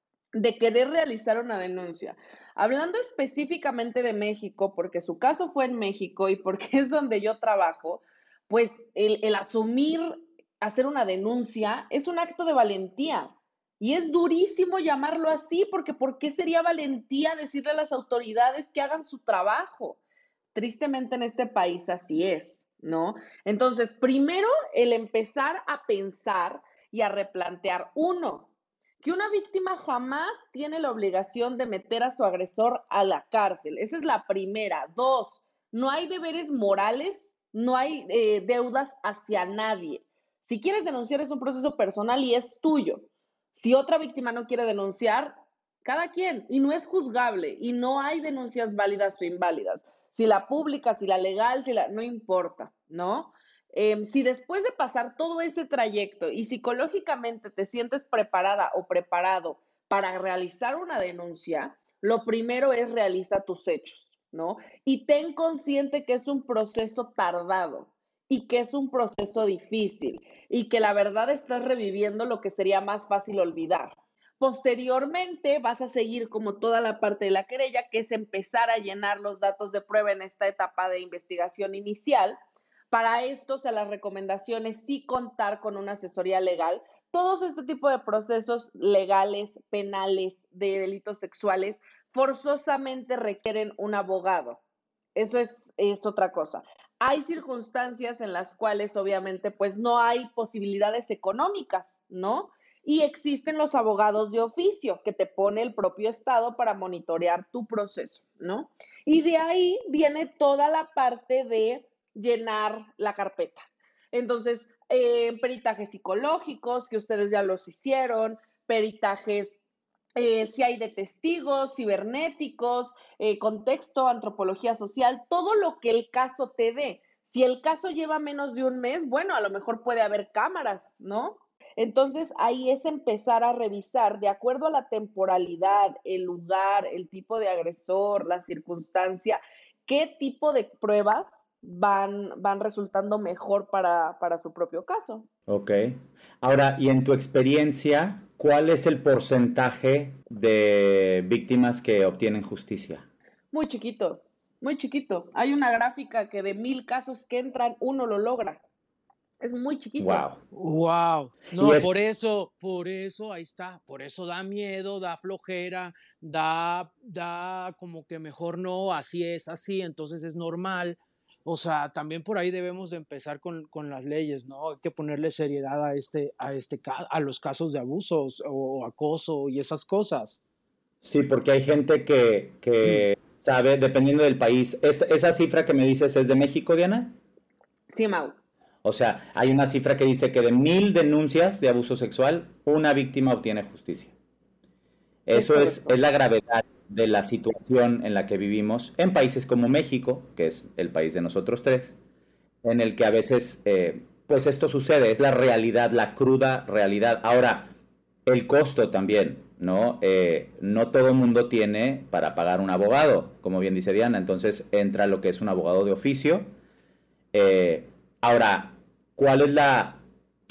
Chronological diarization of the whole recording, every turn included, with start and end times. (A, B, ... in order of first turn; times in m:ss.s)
0:00.3-0:20.0 A
0:20.5-0:28.5 A
0:29.0-1:22.4 A
1:22.9-1:34.6 A
1:35.2-1:59.6 A
2:00.2-2:25.3 A
2:25.5-2:33.1 B
2:33.5-2:38.6 A
2:39.4-2:40.2 A
2:40.0-2:40.4 B
2:40.5-3:00.4 C
2:41.5-2:41.9 B
3:01.0-3:07.2 B
3:07.9-3:08.4 A
3:08.8-3:14.1 B
3:15.3-3:22.0 B
3:15.3-3:16.0 A
3:22.6-3:27.7 B
3:28.2-3:36.5 B
3:37.3-3:40.0 B